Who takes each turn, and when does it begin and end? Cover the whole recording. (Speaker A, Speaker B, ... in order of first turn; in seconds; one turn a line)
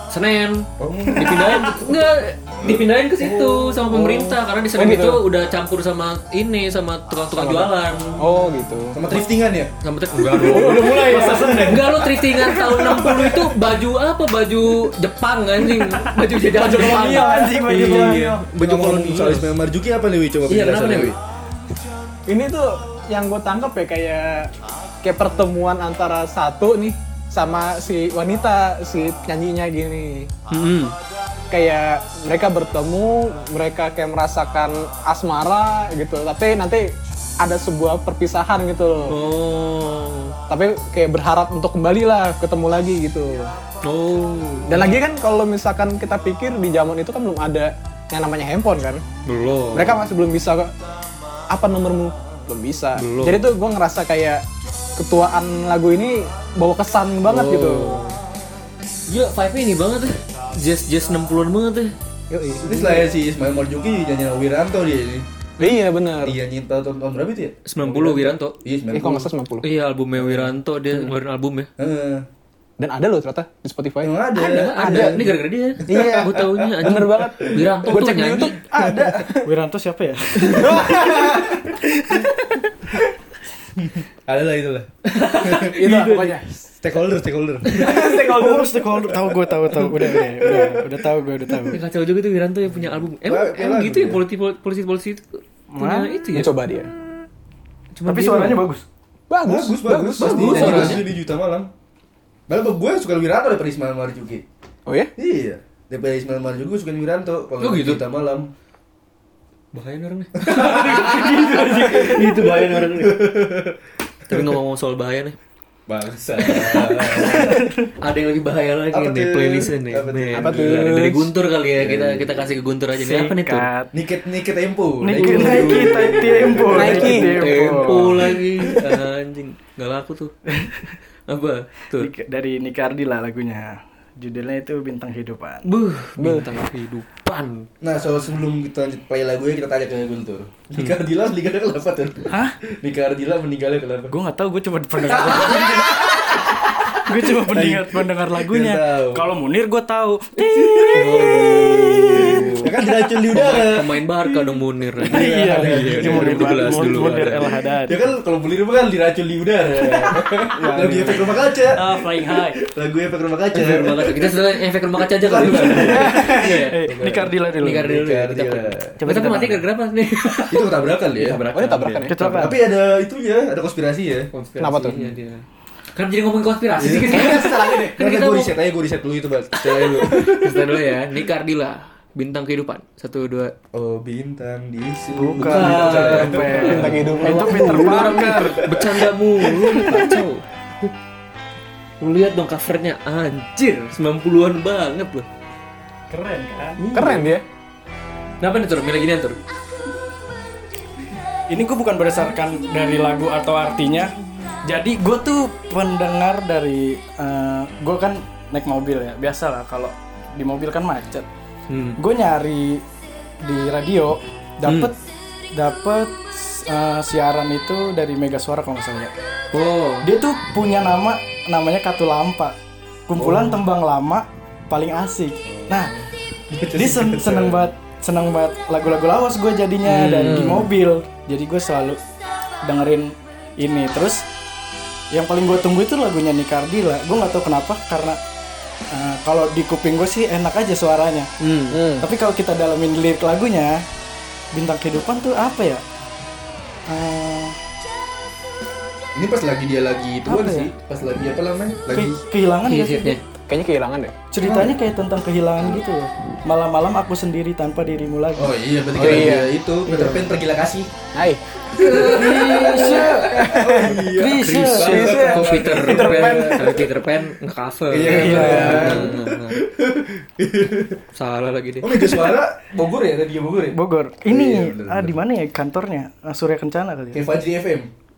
Speaker A: 0.1-8.2
Speaker B: 0.8-2.0
Speaker B: 2.6-3.8
Speaker C: 3.9-5.2
Speaker C: 7.3-9.0
Speaker B: 8.9-9.7
Speaker A: 9.8-19.5
Speaker C: 10.2-12.0
Speaker D: 10.5-13.3
Speaker D: 16.5-18.4
Speaker C: 16.6-17.9
Speaker B: 17.7-21.2
Speaker A: 20.5-21.1
Speaker C: 22.3-24.5
Speaker C: 25.0-30.3
Speaker A: 30.5-31.0
Speaker C: 31.5-39.2
Speaker A: 39.1-40.4
Speaker C: 40.5-43.5
Speaker A: 43.8-45.0
Speaker C: 44.7-49.0
Speaker A: 49.2-50.0
Speaker C: 49.7-50.7
Speaker C: 51.5-54.4
Speaker A: 53.0-53.5
Speaker C: 55.0-58.0
Speaker A: 57.2-58.2
Speaker A: 59.1-61.9
Speaker C: 62.3-63.0
Speaker B: 62.5-65.2
Speaker C: 65.6-66.4
Speaker B: 66.2-69.3
Speaker A: 67.7-68.6
Speaker C: 68.9-69.7
Speaker A: 69.6-71.7
Speaker B: 71.8-72.2
Speaker C: 72.8-74.2
Speaker B: 74.0-77.7
Speaker A: 74.3-78.6
Speaker C: 74.7-79.5
Speaker B: 78.7-79.3
Speaker D: 79.4-82.4
Speaker A: 80.5-80.8
Speaker C: 80.5-81.5
Speaker B: 81.3-81.7
Speaker B: 83.8-85.8
Speaker A: 85.0-86.4
Speaker C: 85.6-86.5
Speaker B: 86.8-87.9
Speaker A: 87.7-88.2
Speaker C: 87.7-88.8
Speaker D: 88.0-91.8
Speaker B: 89.7-90.8
Speaker A: 91.7-96.5
Speaker B: 93.2-94.2
Speaker D: 95.7-96.1
Speaker C: 96.3-96.9
Speaker A: 97.9-98.6
Speaker D: 98.0-98.8
Speaker C: 99.3-101.0
Speaker B: 99.4-101.7
Speaker A: 100.2-101.1
Speaker B: 102.5-104.4
Speaker C: 104.8-105.1
Speaker B: 105.2-108.5
Speaker A: 107.6-108.0
Speaker A: 109.7-113.2
Speaker B: 110.4-113.8
Speaker D: 110.5-112.5
Speaker A: 114.3-115.3
Speaker B: 115.9-117.6
Speaker A: 116.4-123.7
Speaker D: 117.2-117.9
Speaker B: 118.9-120.9
Speaker C: 120.3-121.3
Speaker B: 121.8-122.5
Speaker D: 123.0-123.9
Speaker B: 123.9-129.0
Speaker D: 125.0-128.2
Speaker A: 125.2-126.3
Speaker C: 126.7-127.6
Speaker A: 127.0-130.3
Speaker D: 130.5-130.9
Speaker A: 131.3-132.1
Speaker D: 131.9-135.7
Speaker A: 135.7-137.7
Speaker C: 136.2-136.5
Speaker B: 137.8-144.1
Speaker D: 142.3-142.6
Speaker D: 144.1-146.3
Speaker B: 145.0-149.3
Speaker D: 147.0-152.7
Speaker B: 150.4-154.0
Speaker A: 150.9-152.7
Speaker A: 153.3-157.5
Speaker B: 155.0-157.3
Speaker D: 155.0-158.0
Speaker B: 157.9-169.0
Speaker D: 160.5-162.6
Speaker A: 163.5-166.8
Speaker D: 165.5-167.9
Speaker A: 167.6-172.1
Speaker D: 169.0-169.6
Speaker B: 170.5-171.4
Speaker C: 171.3-172.2
Speaker D: 172.1-172.6
Speaker B: 172.2-174.3
Speaker A: 174.3-175.4
Speaker C: 174.6-175.1
Speaker A: 175.9-178.5
Speaker B: 176.8-180.8
Speaker C: 177.1-178.0
Speaker A: 179.6-183.5
Speaker B: 183.7-187.0
Speaker D: 185.1-188.6
Speaker A: 185.4-190.9
Speaker C: 186.6-188.0
Speaker B: 188.2-190.1
Speaker A: 192.0-195.2
Speaker D: 196.1-196.8
Speaker A: 196.8-197.3
Speaker C: 196.9-197.4
Speaker A: 198.4-199.4
Speaker D: 201.5-204.1
Speaker D: 204.7-211.3
Speaker A: 211.7-212.0
Speaker D: 212.0-212.8
Speaker D: 213.4-215.0
Speaker A: 214.6-214.9
Speaker D: 215.5-219.1
Speaker A: 219.5-220.1
Speaker D: 220.0-222.5
Speaker D: 223.1-225.9
Speaker B: 223.2-223.6
Speaker B: 225.5-227.7
Speaker D: 226.7-232.0
Speaker A: 229.9-230.6
Speaker C: 230.2-230.7
Speaker D: 232.6-234.2
Speaker D: 235.1-238.2
Speaker D: 238.9-241.3
Speaker A: 241.4-241.8
Speaker C: 241.7-242.1
Speaker D: 242.0-243.8
Speaker D: 244.5-245.8
Speaker D: 246.9-247.6
Speaker B: 249.1-252.2
Speaker D: 250.2-250.7
Speaker D: 251.9-253.2
Speaker A: 252.7-253.2
Speaker C: 253.5-254.1
Speaker D: 254.3-258.5
Speaker B: 254.4-254.8
Speaker B: 258.4-260.9
Speaker C: 258.9-259.6
Speaker C: 261.1-261.4
Speaker A: 261.8-263.3
Speaker B: 261.8-266.9
Speaker D: 262.1-263.3
Speaker C: 263.1-264.1
Speaker D: 263.9-265.2
Speaker A: 264.3-269.6
Speaker C: 264.8-266.9
Speaker B: 267.9-271.0
Speaker C: 268.0-269.1
Speaker D: 268.1-268.9
Speaker A: 271.1-272.2
Speaker B: 271.8-275.1
Speaker D: 273.7-277.2
Speaker B: 277.1-277.9